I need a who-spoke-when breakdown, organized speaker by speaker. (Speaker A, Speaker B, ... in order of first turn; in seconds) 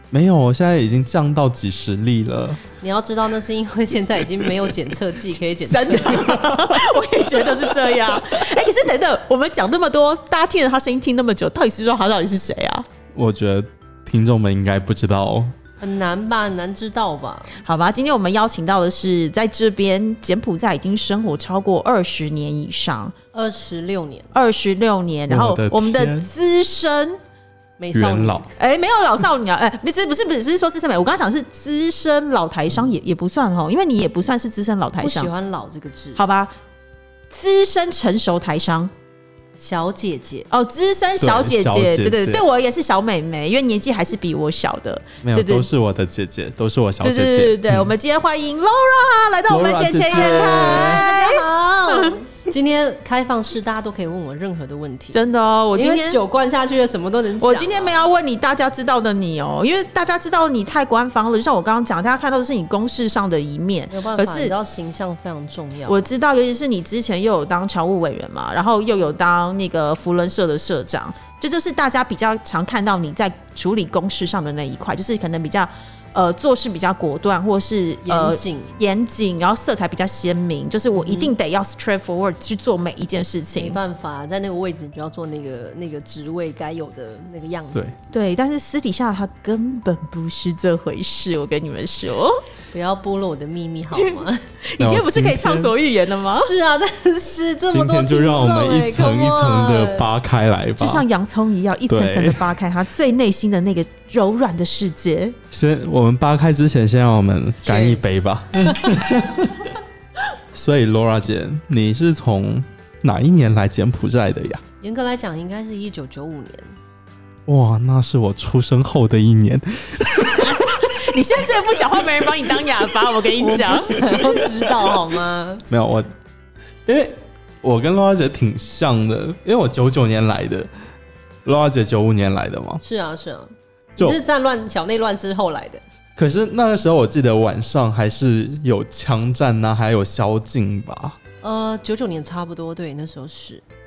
Speaker A: 0.1-2.6, 13.1-15.5, 25.3-26.3, 27.9-28.4, 41.2-42.4, 45.2-47.9, 49.5-51.0, 94.8-95.7, 97.7-101.0, 101.9-102.5, 105.5-109.7, 110.5-114.6, 117.5-120.9, 125.7-126.1, 126.9-130.7, 131.4-132.8, 136.2-141.2
Speaker B: 2.7-6.5, 15.8-17.6, 23.3-24.3, 27.8-28.5, 35.0-36.2, 39.6-40.5, 50.2-58.0, 63.9-66.1, 78.0-78.8, 81.0-81.3, 83.5-87.9, 92.7-94.5, 96.3-100.1, 107.6-108.2, 114.8-116.8, 123.4-125.6, 132.8-135.8, 141.4-143.6
Speaker C: 5.6-12.9, 17.6-23.1, 24.3-27.2, 28.6-35.3, 36.1-36.5, 37.3-38.9, 40.5-45.7, 47.0-52.2, 55.1-56.2, 57.4-64.5, 65.8-83.8, 88.1-92.4, 93.9-96.5, 100.8-105.3, 120.3-124.2